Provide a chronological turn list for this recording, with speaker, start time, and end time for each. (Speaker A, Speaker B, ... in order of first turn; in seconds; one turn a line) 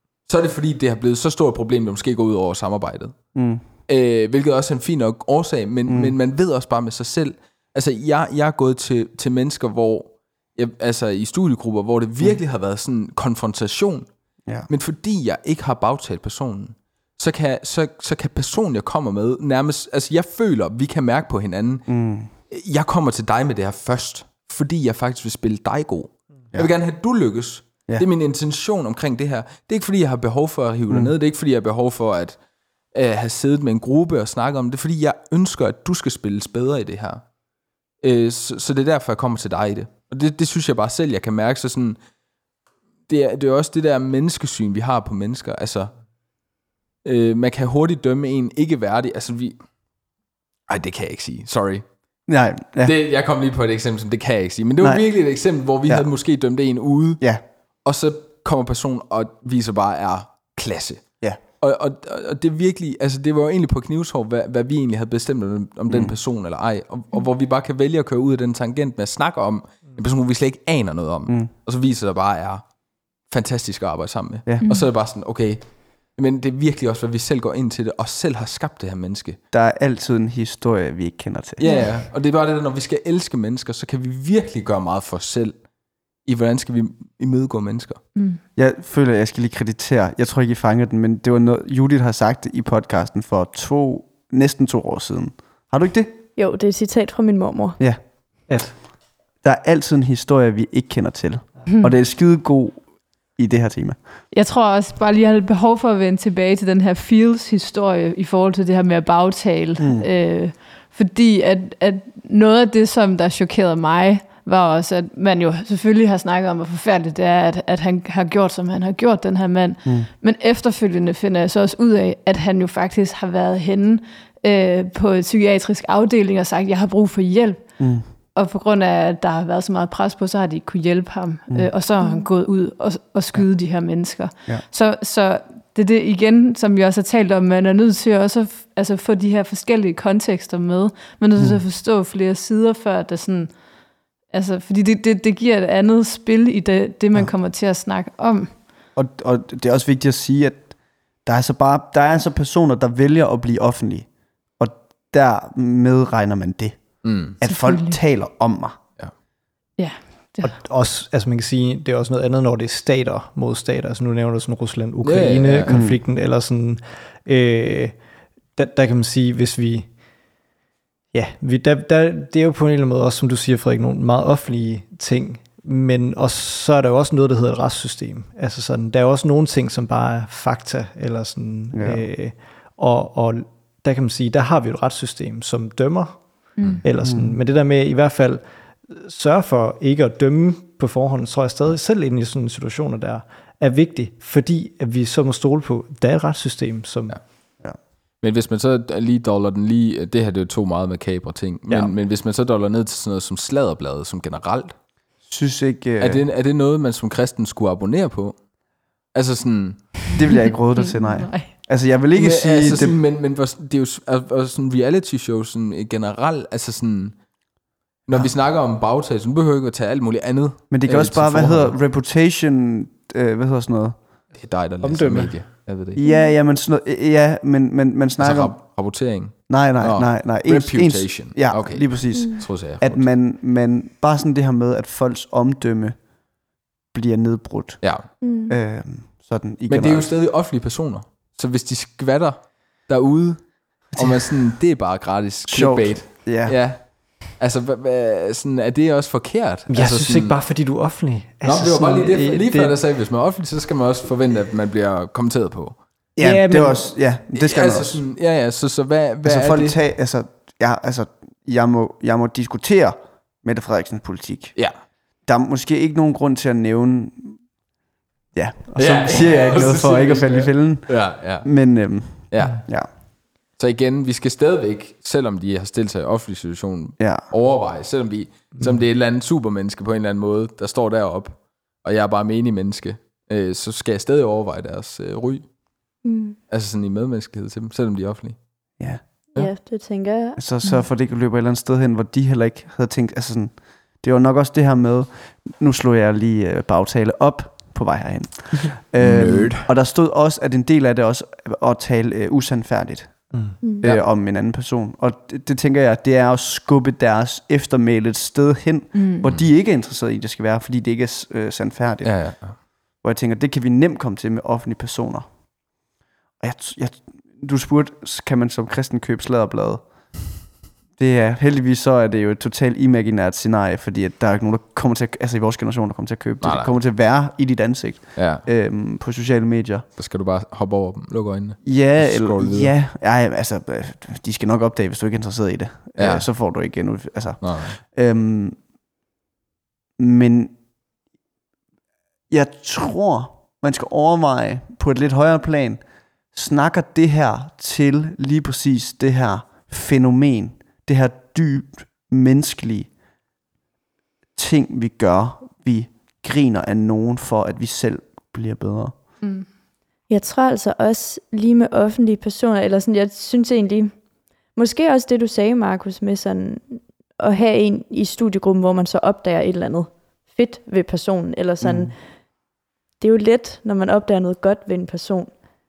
Speaker A: 0.2-3.2
Speaker B: 3.3-3.6
Speaker A: 3.9-14.1
Speaker B: 5.9-6.1
Speaker A: 14.7-32.4
Speaker B: 21.9-22.3
Speaker A: 32.9-37.2
Speaker A: 38.0-42.0
Speaker A: 43.1-46.0
Speaker A: 47.0-49.6
Speaker A: 50.7-51.8
Speaker B: 52.3-52.9
Speaker A: 52.8-57.3
Speaker B: 54.8-55.3
Speaker A: 57.8-79.4
Speaker B: 65.9-66.1
Speaker C: 74.6-74.9
Speaker B: 79.5-81.7
Speaker A: 81.6-85.6
Speaker C: 81.6-82.0
Speaker A: 86.2-88.0
Speaker C: 88.2-88.4
Speaker B: 88.5-96.1
Speaker D: 96.3-97.8
Speaker E: 98.5-98.8
Speaker B: 99.4-104.0
Speaker C: 104.3-143.6
Speaker B: 109.8-110.0
Speaker B: 127.8-128.1
Speaker D: 132.0-132.3
Speaker B: 141.4-141.6
Speaker C: 144.3-148.6
Speaker B: 148.9-158.8
Speaker A: 157.0-157.4
Speaker C: 157.4-158.0
Speaker C: 159.8-160.6
Speaker E: 160.4-170.1
Speaker A: 165.0-165.8
Speaker B: 165.7-166.0
Speaker E: 171.1-197.2
Speaker B: 181.7-182.1
Speaker C: 186.6-186.8
Speaker B: 187.0-187.4
Speaker A: 198.2-204.8
Speaker E: 201.7-201.9
Speaker B: 205.2-206.2
Speaker A: 206.0-208.4
Speaker A: 209.1-210.1
Speaker B: 210.1-213.0
Speaker C: 210.8-211.5
Speaker A: 212.1-217.2
Speaker A: 218.0-221.8
Speaker B: 220.7-224.0
Speaker A: 224.3-226.0
Speaker E: 224.8-225.4
Speaker D: 226.0-226.3
Speaker B: 226.0-228.7
Speaker A: 228.2-233.1
Speaker B: 229.3-236.0
Speaker D: 232.1-232.4
Speaker B: 236.9-240.1
Speaker A: 237.8-238.1
Speaker D: 238.2-238.5
Speaker A: 239.7-250.4
Speaker B: 245.4-246.7
Speaker E: 249.7-252.8
Speaker A: 251.4-255.8
Speaker B: 256.1-258.0
Speaker E: 256.2-256.9
Speaker A: 257.3-259.8
Speaker B: 259.2-264.6
Speaker B: 265.2-267.4
Speaker B: 268.3-272.9
Speaker A: 268.7-285.5
Speaker B: 277.0-277.3
Speaker E: 278.5-278.8
Speaker D: 286.0-286.4
Speaker A: 286.5-288.7
Speaker B: 288.8-289.0
Speaker D: 289.4-290.4
Speaker B: 290.4-315.3
Speaker A: 299.0-299.7
Speaker E: 303.3-303.6
Speaker C: 308.9-309.3
Speaker A: 312.0-312.6
Speaker B: 316.4-320.3
Speaker B: 320.9-329.9
Speaker A: 326.4-326.8
Speaker A: 328.1-328.5
Speaker A: 329.9-332.7
Speaker B: 331.6-338.6
Speaker A: 335.9-336.3
Speaker A: 337.4-337.8
Speaker B: 340.0-340.5
Speaker B: 342.3-352.9
Speaker B: 354.4-358.9
Speaker C: 359.2-359.5
Speaker D: 360.1-364.0
Speaker D: 364.5-372.0
Speaker B: 371.6-371.9
Speaker D: 373.0-375.3